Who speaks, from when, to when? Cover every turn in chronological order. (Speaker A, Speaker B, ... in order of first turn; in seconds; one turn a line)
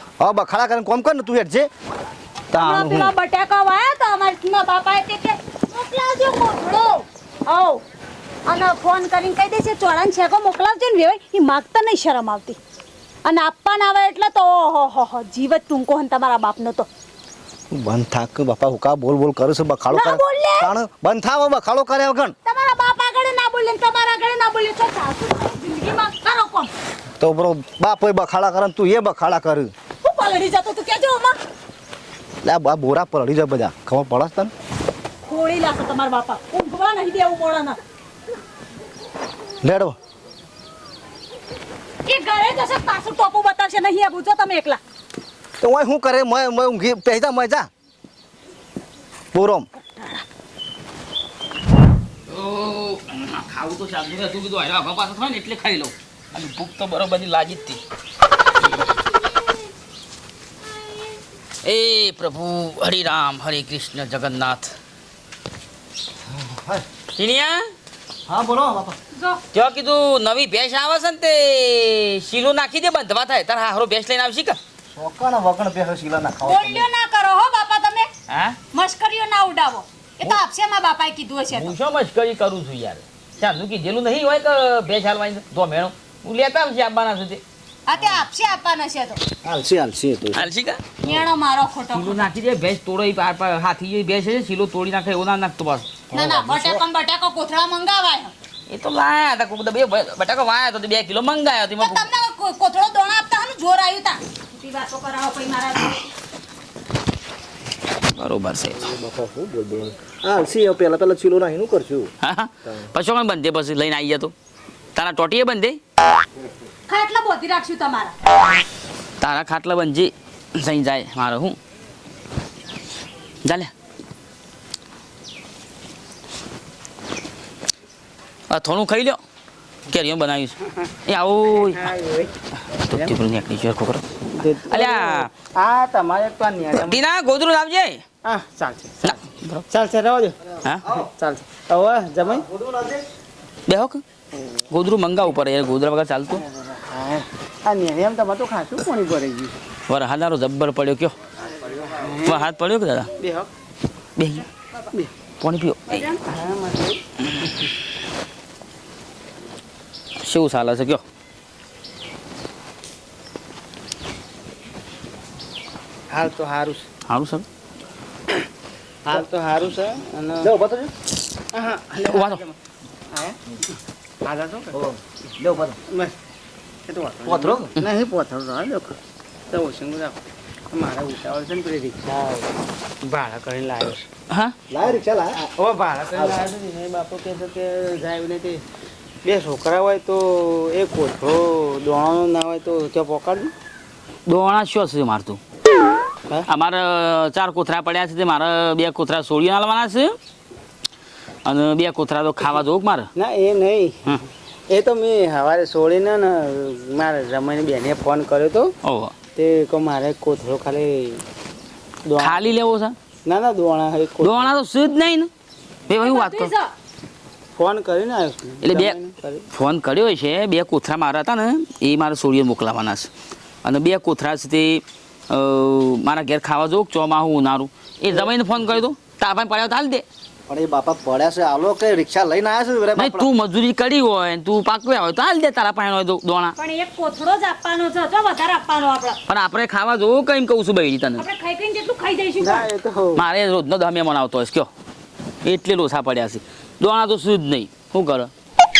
Speaker A: 0.2-1.7
Speaker A: 2.5-3.1
Speaker B: 2.5-7.8
Speaker B: 8.5-12.6
Speaker B: 13.2-16.9
Speaker A: 17.7-22.3
Speaker B: 19.9-20.7
Speaker B: 22.4-26.7
Speaker A: 27.2-29.7
Speaker B: 30.0-31.4
Speaker A: 32.4-34.5
Speaker B: 35.2-37.8
Speaker A: 39.6-40.0
Speaker B: 42.0-44.8
Speaker A: 45.6-47.7
Speaker A: 49.3-49.7
Speaker B: 49.8-50.2
Speaker C: 52.3-57.8
Speaker C: 61.6-64.7
Speaker A: 66.3-66.8
Speaker C: 67.2-67.7
Speaker A: 68.3-69.0
Speaker B: 69.1-69.4
Speaker C: 69.5-74.6
Speaker A: 74.9-76.9
Speaker B: 76.4-78.1
Speaker C: 78.3-78.6
Speaker B: 78.7-81.7
Speaker C: 81.5-87.4
Speaker B: 87.9-89.2
Speaker A: 89.4-90.5
Speaker C: 90.3-90.9
Speaker B: 91.0-92.2
Speaker C: 91.9-96.0
Speaker A: 96.1-96.8
Speaker B: 96.1-98.3
Speaker C: 98.7-102.0
Speaker B: 101.8-106.1
Speaker C: 108.2-108.9
Speaker A: 108.8-112.1
Speaker C: 112.2-114.3
Speaker A: 112.6-112.9
Speaker C: 114.9-115.8
Speaker B: 116.9-118.1
Speaker C: 119.2-121.6
Speaker C: 123.4-123.7
Speaker C: 128.5-129.2
Speaker C: 129.9-131.9
Speaker D: 131.5-132.3
Speaker C: 132.7-134.0
Speaker D: 134.4-137.0
Speaker C: 134.6-135.3
Speaker C: 136.7-138.0
Speaker D: 138.2-140.4
Speaker C: 139.0-139.6
Speaker A: 140.5-141.1
Speaker D: 140.9-142.4
Speaker A: 142.2-143.0
Speaker C: 143.7-144.0
Speaker C: 144.7-146.4
Speaker D: 146.3-149.6
Speaker C: 149.9-151.1
Speaker D: 151.7-152.5
Speaker C: 152.2-153.1
Speaker D: 153.2-153.5
Speaker C: 154.2-154.4
Speaker C: 155.4-156.0
Speaker B: 155.9-156.2
Speaker D: 156.2-157.0
Speaker C: 160.2-161.0
Speaker D: 166.1-166.9
Speaker C: 167.1-167.4
Speaker D: 169.0-170.5
Speaker A: 170.4-170.9
Speaker D: 171.5-172.6
Speaker C: 172.1-172.4
Speaker D: 173.1-173.4
Speaker D: 174.2-174.8
Speaker A: 174.8-175.7
Speaker D: 175.9-176.2
Speaker D: 176.9-178.9
Speaker A: 177.2-177.7
Speaker D: 179.5-180.2
Speaker D: 180.7-182.5
Speaker D: 183.0-184.1
Speaker A: 184.7-185.4
Speaker D: 185.6-188.6
Speaker D: 189.2-193.5
Speaker C: 194.2-195.4
Speaker C: 196.5-200.2
Speaker C: 201.4-203.1
Speaker D: 203.2-208.7
Speaker C: 208.8-209.1
Speaker D: 209.3-211.2
Speaker D: 212.1-212.5
Speaker C: 212.2-212.9
Speaker D: 213.2-214.5
Speaker C: 214.2-215.3
Speaker C: 215.9-216.5
Speaker B: 215.9-216.7
Speaker D: 217.5-219.5
Speaker C: 218.6-218.9
Speaker C: 219.5-223.1
Speaker C: 223.6-230.0
Speaker A: 230.5-233.3
Speaker C: 232.9-236.5
Speaker B: 236.6-239.2
Speaker C: 239.3-241.2
Speaker B: 241.2-242.7
Speaker D: 242.4-243.2
Speaker C: 243.2-244.7
Speaker C: 245.4-248.3